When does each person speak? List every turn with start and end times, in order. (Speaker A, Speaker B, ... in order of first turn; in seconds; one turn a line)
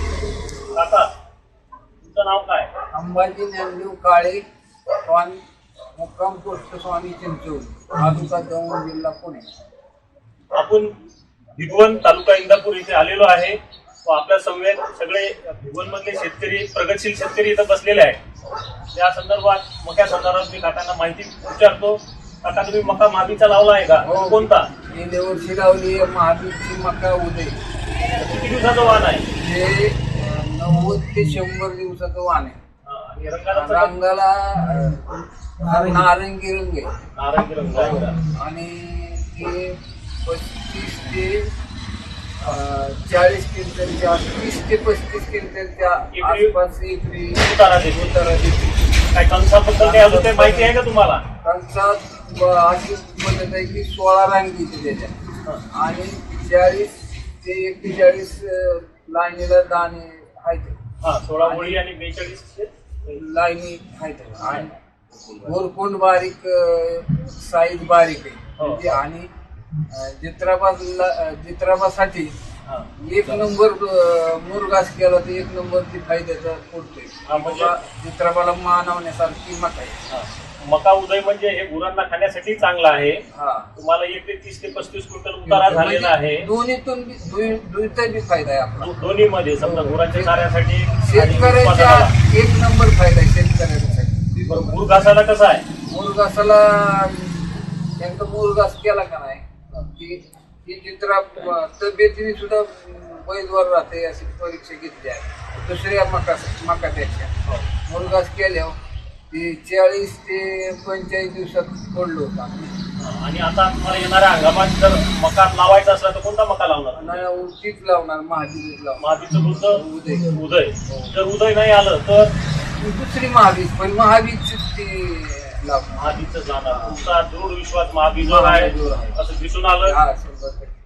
Speaker A: 0.7-1.1
Speaker A: 2.0-2.7
Speaker B: 2.9-4.4
Speaker B: 5.0-5.4
Speaker B: 5.9-9.5
Speaker A: 10.5-10.9
Speaker A: 11.6-18.2
Speaker A: 18.9-24.7
Speaker B: 24.0-27.6
Speaker A: 28.1-29.2
Speaker B: 29.3-32.6
Speaker A: 32.8-33.9
Speaker B: 33.5-36.9
Speaker A: 37.1-38.2
Speaker B: 37.7-41.5
Speaker B: 42.5-48.8
Speaker A: 46.1-46.5
Speaker A: 47.3-48.1
Speaker A: 49.1-51.2
Speaker B: 49.7-50.8
Speaker B: 51.4-55.1
Speaker B: 55.7-60.8
Speaker A: 61.0-63.2
Speaker B: 61.4-61.8
Speaker B: 63.1-64.7
Speaker B: 65.4-69.3
Speaker A: 68.6-69.0
Speaker B: 69.9-72.3
Speaker A: 72.7-73.4
Speaker B: 73.0-80.0
Speaker A: 77.2-77.7
Speaker A: 80.1-83.2
Speaker B: 83.3-83.7
Speaker A: 83.8-86.4
Speaker B: 85.5-88.9
Speaker A: 88.8-92.1
Speaker B: 89.6-95.1
Speaker A: 94.5-95.6
Speaker B: 95.9-107.3
Speaker B: 107.8-108.7
Speaker B: 109.3-112.8
Speaker A: 113.0-117.2
Speaker B: 116.9-120.3
Speaker A: 119.0-122.3
Speaker B: 122.8-127.0
Speaker A: 126.0-130.0
Speaker B: 128.2-129.2
Speaker B: 129.8-130.7